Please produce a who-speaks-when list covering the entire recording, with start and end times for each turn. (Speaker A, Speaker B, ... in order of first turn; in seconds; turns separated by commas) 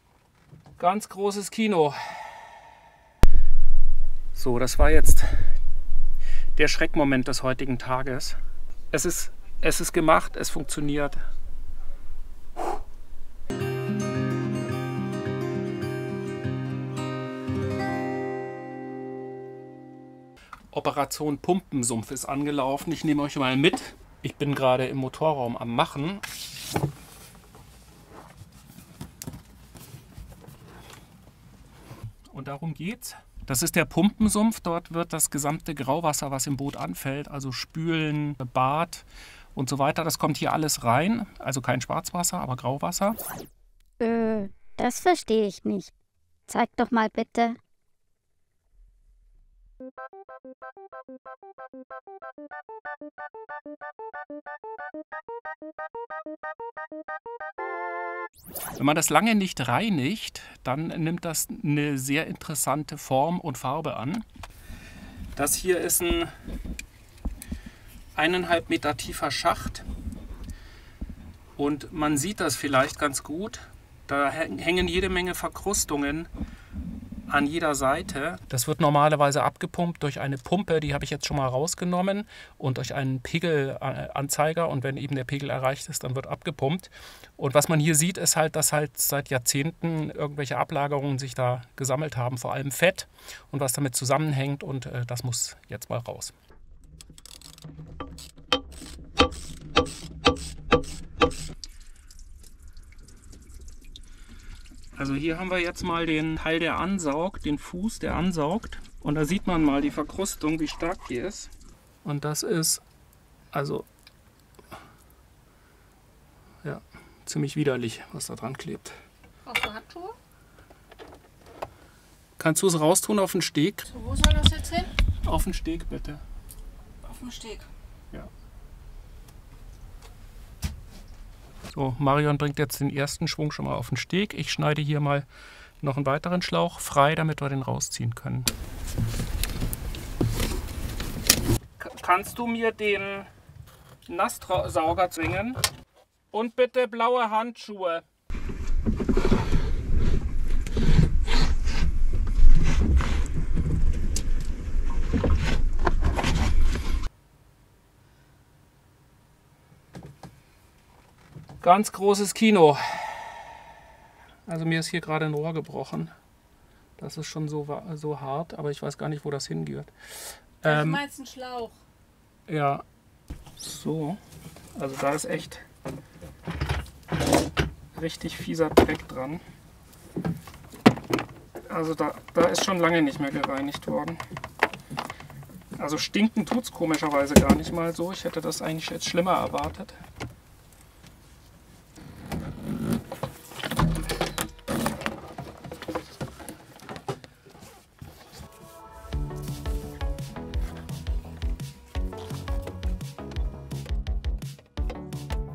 Speaker A: 0.8-2.2, Speaker A: 4.3-5.5, Speaker A: 6.6-8.4, Speaker A: 8.9-11.2, Speaker A: 20.7-26.2, Speaker A: 32.3-43.2, Speaker B: 44.0-45.9, Speaker B: 46.5-47.6, Speaker A: 58.8-64.2, Speaker A: 65.3-66.3, Speaker A: 68.2-69.9, Speaker A: 71.6-76.3, Speaker A: 77.3-96.3, Speaker A: 105.0-111.5, Speaker A: 112.0-112.8, Speaker A: 113.5-113.9, Speaker A: 116.6-119.0, Speaker C: 119.5-120.2, Speaker A: 122.4-123.9, Speaker C: 123.9-124.9, Speaker A: 125.2-126.2, Speaker C: 127.0-127.7, Speaker A: 131.7-135.3, Speaker A: 135.8-138.5, Speaker A: 141.8-143.3, Speaker A: 144.1-145.6, Speaker A: 146.3-148.1, Speaker A: 161.6-163.3, Speaker A: 164.5-166.1, Speaker A: 167.0-169.9, Speaker A: 170.6-171.0, Speaker C: 170.6-171.8, Speaker A: 172.5-172.8, Speaker A: 173.6-174.2, Speaker A: 174.8-175.7, Speaker A: 177.9-179.4, Speaker A: 181.7-184.2, Speaker A: 185.8-190.0